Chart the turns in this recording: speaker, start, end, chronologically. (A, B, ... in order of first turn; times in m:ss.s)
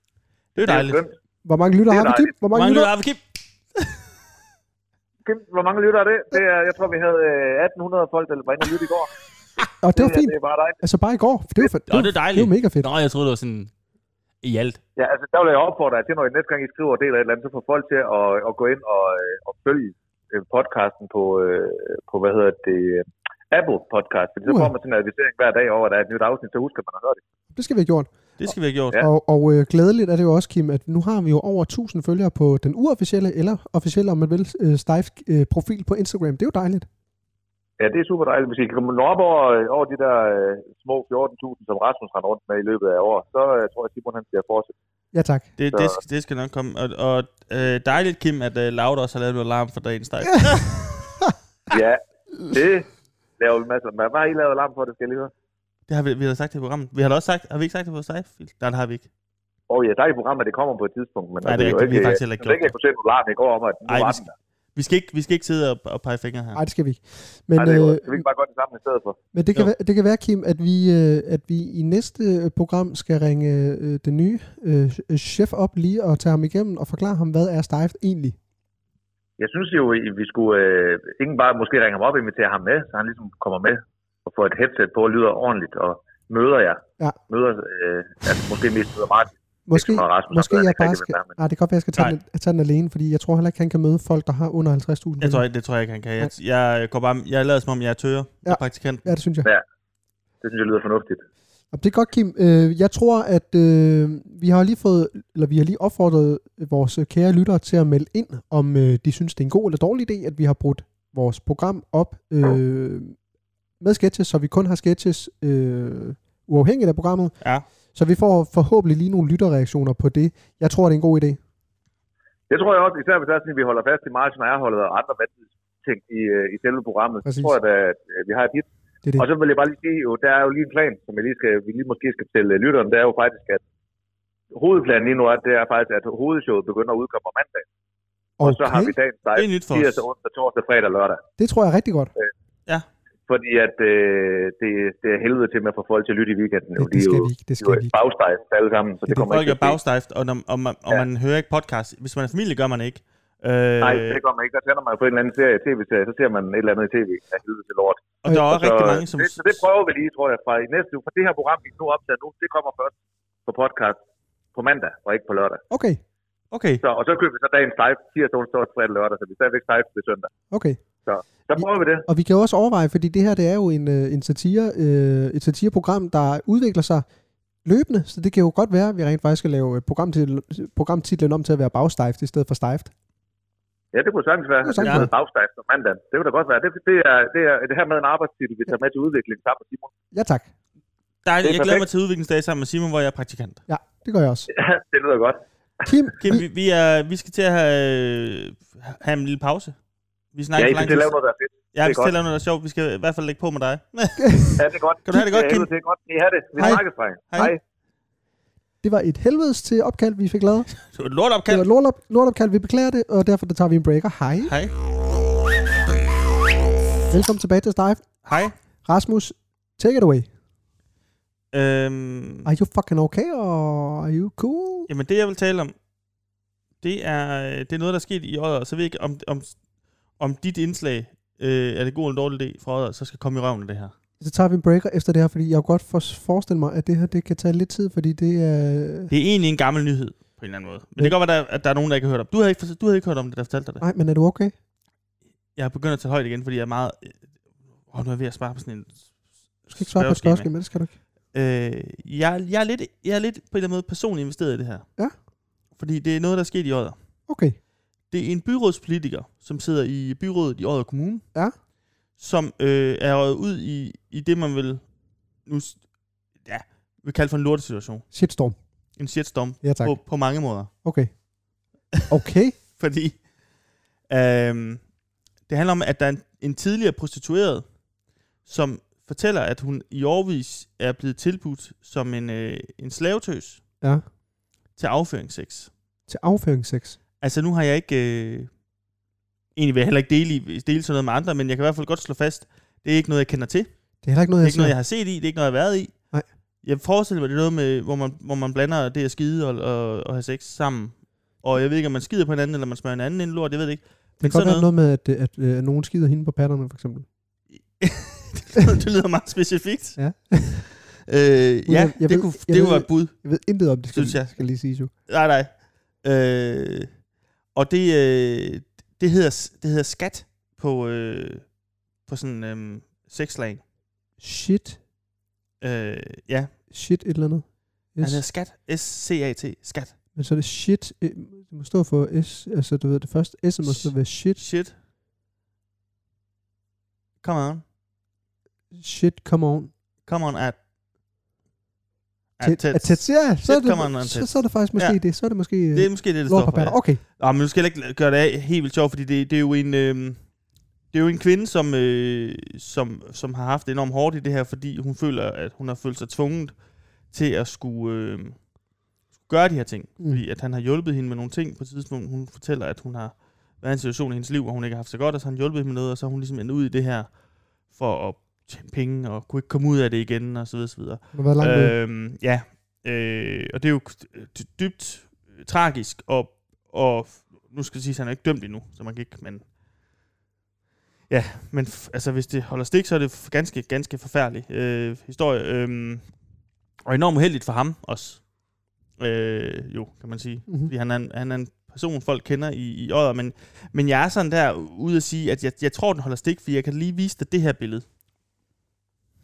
0:00.6-0:01.0 A
0:00.6-0:01.2 B
0:01.4-0:02.9 C
0:01.9-0:02.3 B
0:02.5-0:03.2 A
0:05.2-0:09.1 B
0:09.7-0:10.8 B
0:09.8-0:12.9 C
0:11.9-0:13.7 A
0:14.4-0:14.8 A
0:15.0-0:27.2 B
0:24.4-0:24.7 C
0:27.5-0:28.1 C
0:28.4-0:29.0 A
0:29.0-0:36.9 C
0:37.8-0:44.7 B
0:45.1-0:45.5 C
0:45.6-0:51.0 A
0:51.7-0:55.3 B
0:55.9-0:59.1 A
0:59.7-1:04.3 B
1:01.4-1:02.7 A
1:03.9-1:04.2 A
1:04.8-1:06.6 A
1:06.6-1:08.2 C
1:07.6-1:09.2 B
1:09.3-1:18.4 C
1:19.4-1:31.4 B
1:29.7-1:35.4 C
1:35.2-1:39.1 A
1:38.4-1:39.5 C
1:40.4-1:41.2 B
1:41.7-1:53.2 C
1:53.8-1:57.4 C
1:58.0-2:01.4 C
2:02.5-2:13.6 B
2:07.2-2:07.6 C
2:14.5-2:17.7 B
2:18.4-2:18.9 C
2:18.4-2:21.2 B
2:19.4-2:20.0 A
2:21.4-2:22.1 C
2:23.3-2:29.8 B
2:26.8-2:27.9 C
2:29.1-2:34.2 A
2:33.8-2:42.9 B
2:38.2-2:39.6 A
2:43.5-2:44.0 B
2:44.6-2:45.6 B
2:45.7-2:46.0 C
2:46.5-2:46.8 A
2:46.8-2:50.3 B
2:50.5-2:50.8 C
2:51.1-2:52.1 B
2:51.6-2:57.1 C
2:57.6-3:02.9 C
3:03.9-3:09.9 B
3:04.6-3:05.1 C
3:04.8-3:05.1 A
3:10.1-3:10.5 C
3:11.2-3:13.6 A
3:11.4-3:11.9 B
3:13.7-3:14.5 C
3:14.5-3:15.9 B
3:15.9-3:16.4 C
3:16.2-3:19.8 A
3:20.3-3:21.1 A
3:20.6-3:22.1 B
3:21.7-3:24.5 A
3:24.2-3:24.6 C
3:24.6-3:27.6 B
3:25.1-3:25.7 A
3:26.6-3:27.5 A
3:28.8-3:30.7 C
3:30.8-3:31.7 A
3:31.5-3:34.5 C
3:34.4-3:34.7 A
3:37.1-3:38.1 C
3:38.2-3:38.6 A
3:38.8-3:40.3 C
3:41.5-3:42.5 A
3:42.4-3:44.9 C
3:44.9-3:45.8 A
3:46.8-3:49.6 A
3:50.2-3:53.9 A
3:54.2-3:59.1 C
3:59.1-4:03.8 A
4:03.8-4:04.5 C
4:05.6-4:07.3 A
4:07.9-4:09.1 A
4:09.7-4:10.5 A
4:09.7-4:11.0 C
4:11.3-4:14.9 A
4:15.8-4:17.0 A
4:17.3-4:17.6 C
4:18.1-4:21.2 A
4:22.2-4:24.9 A
4:25.4-4:25.9 A
4:26.4-4:28.1 A
4:28.1-4:28.6 C
4:29.0-4:30.7 A
4:29.6-4:30.0 C
4:30.7-4:31.1 C
4:32.1-4:32.6 C
4:32.8-4:33.3 A
4:34.1-4:34.9 A
4:35.5-4:37.7 A
4:38.4-4:43.6 A
4:44.8-4:45.7 A
4:46.1-4:47.0 C
4:47.2-4:48.5 A
4:49.6-4:53.7 A
4:54.0-4:54.7 C
4:54.4-4:56.0 A
4:56.6-5:04.7 A
5:04.2-5:07.1 C
5:07.6-5:17.0 A
5:10.0-5:10.7 C
5:11.7-5:14.9 C
5:17.5-5:21.5 A
5:22.0-5:23.6 A
5:24.2-5:24.8 C
5:25.6-5:26.5 A
5:26.7-5:28.2 C
5:28.0-5:29.9 A
5:30.2-5:34.4 C
5:33.6-5:34.7 A
5:37.2-5:37.6 A
5:38.7-5:39.7 C
5:40.0-5:40.6 A
5:42.4-5:45.0 A
5:42.4-5:47.0 C
5:45.7-5:50.3 A
5:50.9-5:58.5 A
5:59.2-6:19.5 A
6:11.1-6:11.8 C
6:21.1-6:26.1 A
6:26.8-6:28.3 A
6:28.9-6:37.8 A